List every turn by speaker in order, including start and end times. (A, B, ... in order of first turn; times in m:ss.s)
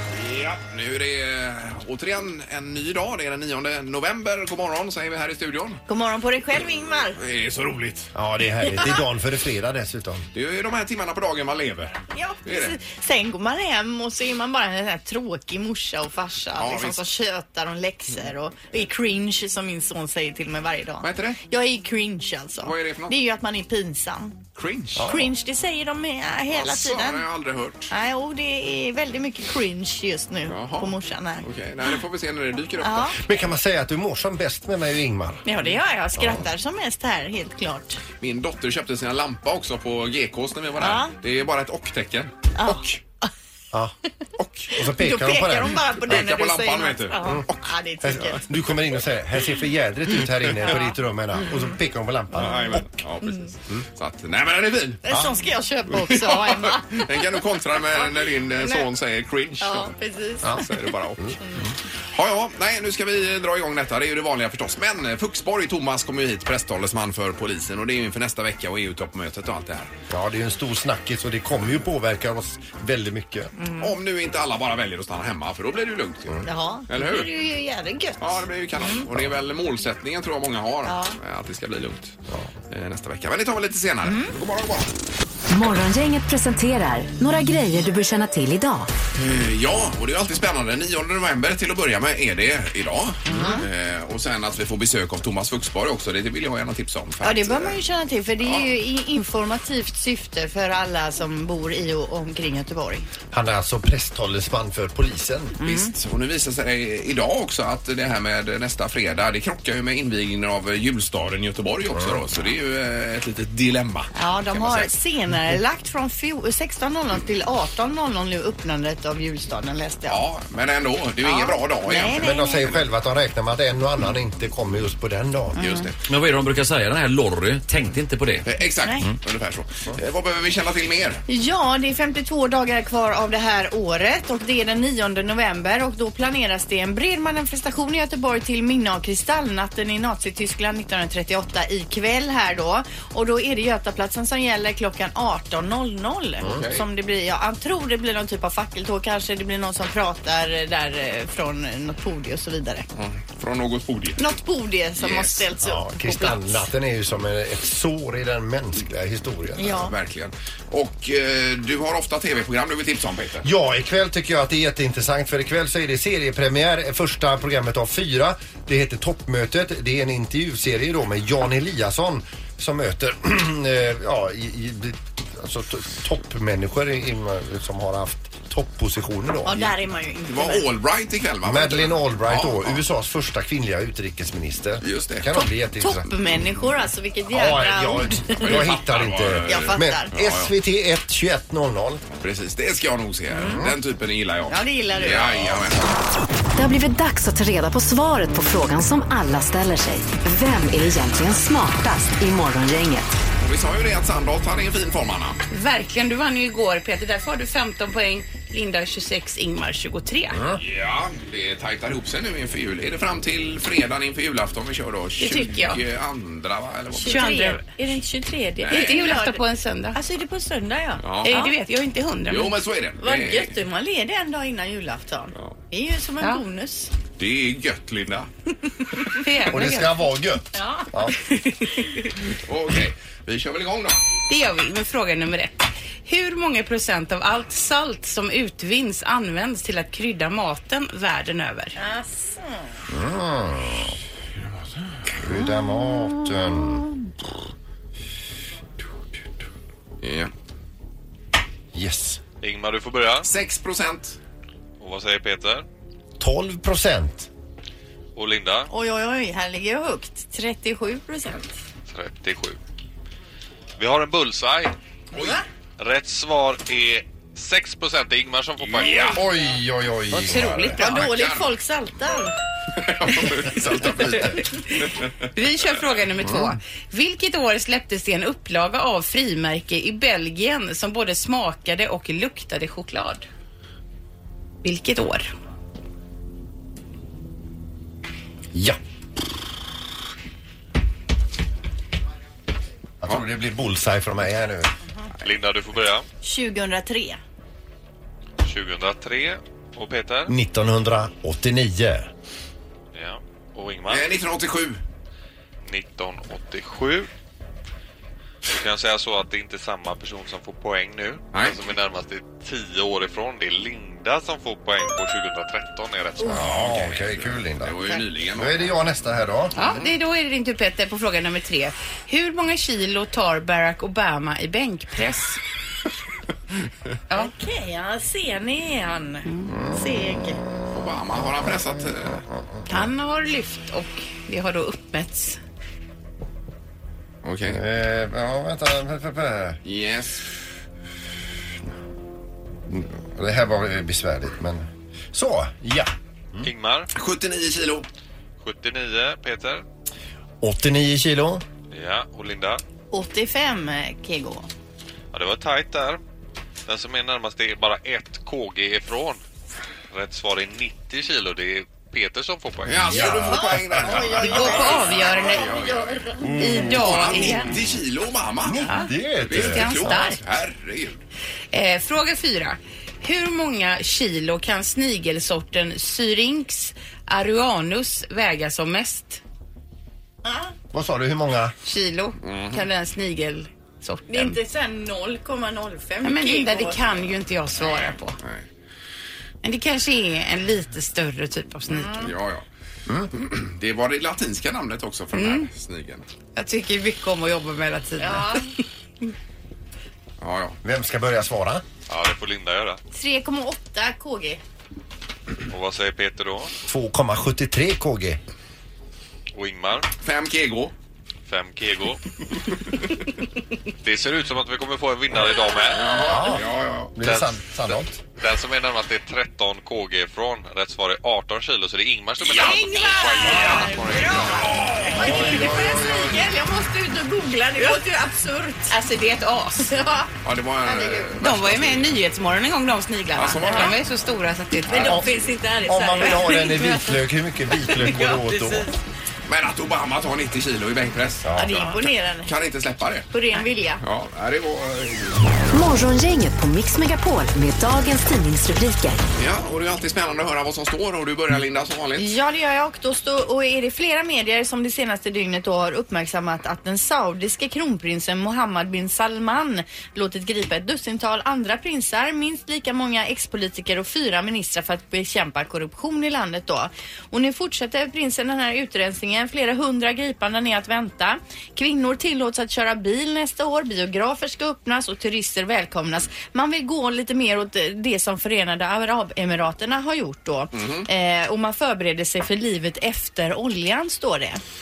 0:00.2-0:05.8 A
0:05.9-0:07.2 B
0:07.1-0:08.1 A
0:08.1-0:10.3 C
0:10.3-0:12.7 A
0:12.1-0:24.4 B
0:16.6-0:17.0 A
0:21.0-0:21.4 A
0:22.6-0:23.2 A
0:24.6-0:25.1 A
0:25.0-0:27.2 B
0:26.5-0:27.9 A
0:27.9-0:31.4 B
0:30.5-0:33.2 A
0:32.8-0:33.2 B
0:33.2-0:35.4 C
0:35.4-0:38.0 B
0:36.2-0:36.4 C
0:38.2-0:43.0 A
0:40.8-0:41.1 B
0:42.5-0:43.3 B
0:44.4-0:44.7 A
0:44.7-0:45.8 C
0:44.8-0:48.4 B
0:46.1-0:47.6 A
0:48.0-0:52.8 C
0:50.6-0:50.9 B
0:52.4-0:55.0 A
0:55.0-0:57.1 B
0:55.1-0:55.3 C
0:56.0-1:01.3 A
0:58.6-0:58.8 B
0:59.6-1:00.7 B
1:01.4-1:01.7 B
1:02.1-1:09.9 A
1:10.1-1:13.5 C
1:13.6-1:13.9 B
1:13.8-1:17.3 A
1:16.4-1:19.0 B
1:18.2-1:22.2 A
1:20.8-1:21.2 B
1:22.7-1:24.9 A
1:24.0-1:24.3 B
1:25.5-1:28.9 D
1:29.2-1:37.8 A
1:33.2-1:33.6 B
1:37.2-1:43.0 B
1:43.3-1:45.6 C
1:45.6-1:45.9 B
1:45.6-1:54.9 A
1:51.9-1:52.2 C
1:54.1-2:00.2 B
2:00.1-2:02.7 A
2:01.2-2:02.7 B
2:02.1-2:05.7 C
2:05.6-2:05.9 B
2:05.6-2:05.9 A
2:06.1-2:08.4 E
2:08.4-2:11.2 A
2:11.3-2:32.8 B
2:26.4-2:26.8 A
2:32.9-2:34.3 A
2:34.2-2:36.6 B
2:35.0-2:35.4 A
2:35.6-2:39.9 C
2:39.6-2:39.9 B
2:39.8-2:43.5 A
2:43.4-2:59.6 C
2:59.4-3:00.7 B
3:00.3-3:02.8 A
3:01.4-3:06.1 C
3:04.8-3:05.3 A
3:05.4-3:08.6 B
3:07.3-3:12.0 C
3:08.4-3:10.5 A
3:09.5-3:10.1 B
3:12.2-3:15.9 A
3:14.5-3:15.6 B
3:16.6-3:23.1 D
3:23.4-3:25.4 A
3:25.5-3:30.4 F
3:30.6-3:37.6 A
3:35.2-3:35.8 F
3:37.0-3:39.4 B
3:37.0-3:37.6 F
3:38.6-3:39.2 A
3:38.7-3:40.0 F
3:39.9-3:41.5 B
3:41.0-3:41.4 A
3:41.2-3:42.5 F
3:42.3-3:43.6 A
3:43.0-3:46.9 B
3:47.2-3:48.3 A
3:49.1-3:50.0 F
3:49.5-3:51.1 C
3:50.5-3:50.9 B
3:51.2-3:51.9 F
3:52.4-3:54.0 A
3:54.3-4:01.7 F
4:01.8-4:02.6 B
4:02.9-4:04.0 C
4:05.1-4:06.9 C
4:10.0-4:10.3 A
4:11.7-4:12.2 C
4:12.4-4:13.3 G
4:13.2-4:14.2 A
4:14.8-4:15.6 G
4:16.2-4:17.3 C
4:18.2-4:18.7 G
4:18.7-4:21.5 B
4:21.9-4:22.6 G
4:23.8-4:24.7 G
4:25.8-4:29.3 G
4:28.6-4:29.2 A
4:29.1-4:30.8 C
4:30.1-4:31.1 F
4:30.8-4:32.3 B
4:30.8-4:31.5 A
4:32.8-4:35.1 A
4:35.3-4:43.2 F
4:36.2-4:36.5 C
4:44.6-4:45.3 F
4:53.0-4:54.7 C
4:55.2-4:56.0 G
4:56.2-4:57.2 B
4:58.4-5:00.3 G
5:00.3-5:02.1 C
5:02.9-5:04.1 G
5:03.9-5:04.8 A
5:05.6-5:07.1 G
5:08.4-5:16.6 G
5:16.3-5:19.6 C
5:16.4-5:18.8 A
5:19.5-5:25.4 F
5:19.6-5:19.9 A
5:27.1-5:30.4 B
5:29.5-5:29.8 C
5:30.7-5:32.2 A
5:32.3-5:32.6 C
5:32.7-5:35.4 F
5:37.2-5:37.6 A
5:37.4-5:39.6 C
5:39.6-5:40.2 A
5:42.7-5:46.5 C
5:46.4-5:46.9 G
5:46.9-5:47.9 A
5:48.4-5:49.6 G
5:50.4-5:51.4 C
5:51.7-5:52.6 G
5:52.9-5:54.5 B
5:55.1-5:56.0 G
5:56.7-5:59.2 G
5:59.9-6:03.2 G
6:02.6-6:08.7 A
6:02.9-6:04.2 C
6:03.3-6:06.1 B
6:04.2-6:05.3 F
6:06.2-6:07.3 C
6:06.3-6:07.5 F
6:08.4-6:10.0 C
6:08.6-6:10.2 F
6:09.2-6:11.0 A
6:11.5-6:19.2 F
6:20.2-6:20.5 B
6:20.7-6:21.5 C
6:21.6-6:24.4 F
6:22.2-6:22.7 A
6:24.1-6:26.8 B
6:26.0-6:28.2 F
6:28.2-6:28.4 A
6:29.4-6:32.1 F
6:31.7-6:32.1 B
6:32.0-6:32.4 A
6:33.1-6:36.1 A
6:35.1-6:35.5 F
6:36.4-6:38.4 F
6:38.0-6:38.5 B
6:40.2-6:40.6 A
6:40.6-6:41.6 C
6:41.9-6:42.8 G
6:42.9-6:44.4 B
6:45.5-6:46.5 G
6:46.7-6:48.2 C
6:49.3-6:49.9 G
6:50.0-6:50.7 A
6:51.3-6:52.0 G
6:53.8-6:56.0 G
6:55.7-6:56.9 A
6:56.0-6:58.0 C
6:57.0-7:04.6 G
7:02.2-7:08.7 B
7:04.1-7:05.3 A
7:04.9-7:06.3 C
7:07.6-7:07.9 F
7:08.7-7:09.7 F
7:09.6-7:10.1 B
7:10.2-7:11.9 A
7:10.6-7:11.1 B
7:11.2-7:15.0 F
7:13.1-7:13.8 A
7:13.4-7:13.8 B
7:14.7-7:16.8 B
7:14.8-7:15.1 C
7:15.7-7:18.7 C
7:16.0-7:16.8 F
7:17.7-7:18.7 F
7:19.3-7:21.7 A
7:21.2-7:21.7 C
7:21.4-7:22.3 B
7:22.2-7:23.1 A
7:23.1-7:23.8 B
7:23.8-7:25.4 A
7:25.5-7:29.0 D
7:29.2-7:32.1 A
7:32.0-8:04.4 B
8:00.5-8:00.9 A